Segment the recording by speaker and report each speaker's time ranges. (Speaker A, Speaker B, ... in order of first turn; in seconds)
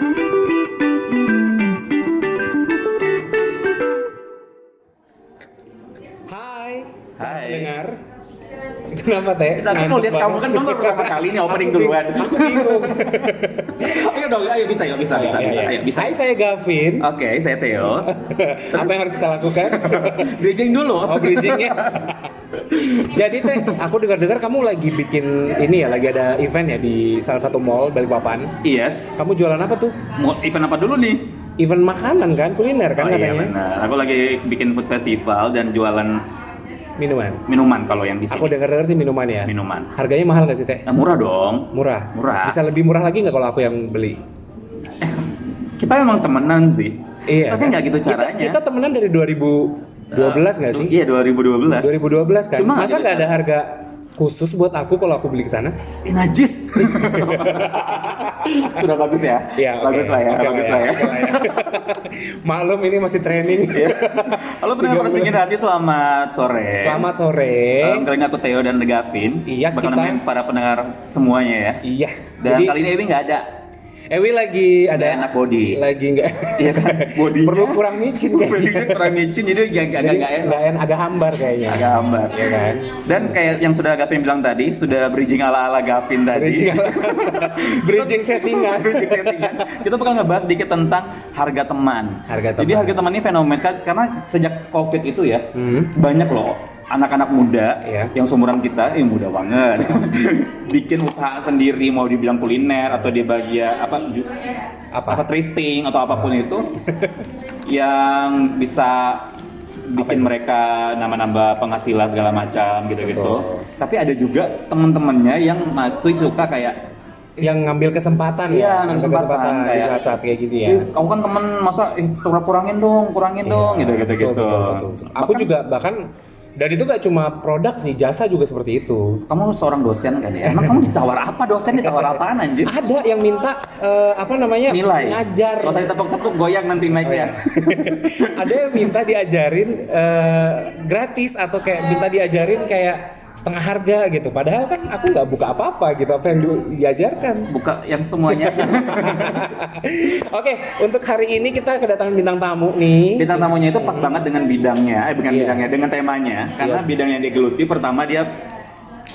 Speaker A: 6.3-8.0, 8.9-14.0, 15.1-17.1, 18.0-20.4, 21.0-22.3, 23.0-28.5, 29.2-30.0, 31.6-33.5, 37.0-37.4, 38.3-40.9, 41.7-44.2, 47.3-51.0, 51.8-55.8, 56.8-58.8, 59.5-65.4, 66.8-68.1, 69.5-70.2, 71.8-72.8, 74.1-79.2, 80.0-83.2, 86.3-89.8, 92.3-93.0, 95.5-95.9, 97.8-98.1, 104.9-105.2, 106.1-107.2, 110.0-110.3, 113.0-113.7, 117.4-120.9, 123.5-129.2, 130.4-130.9, 131.7-135.9, 137.0-147.5, 148.3-154.1, 155.3-155.7, 156.6-156.9
Speaker B: 7.2-7.8, 9.6-16.2, 17.0-18.1, 18.7-19.0, 19.6-23.8, 28.6-29.3, 30.1-31.2, 33.0-36.2, 37.5-38.5, 39.5-39.9, 40.9-42.6, 45.0-48.6, 50.1-52.0, 52.5-53.3, 56.0-61.8, 63.7-67.0, 67.8-71.8, 72.4-73.5, 74.9-75.8, 76.6-80.6, 81.7-104.3, 105.1-106.7, 107.7-109.3, 109.9-116.8, 118.5-120.1, 120.7-125.5, 129.3-132.7, 134.7-138.9, 147.5-149.5, 153.2-158.3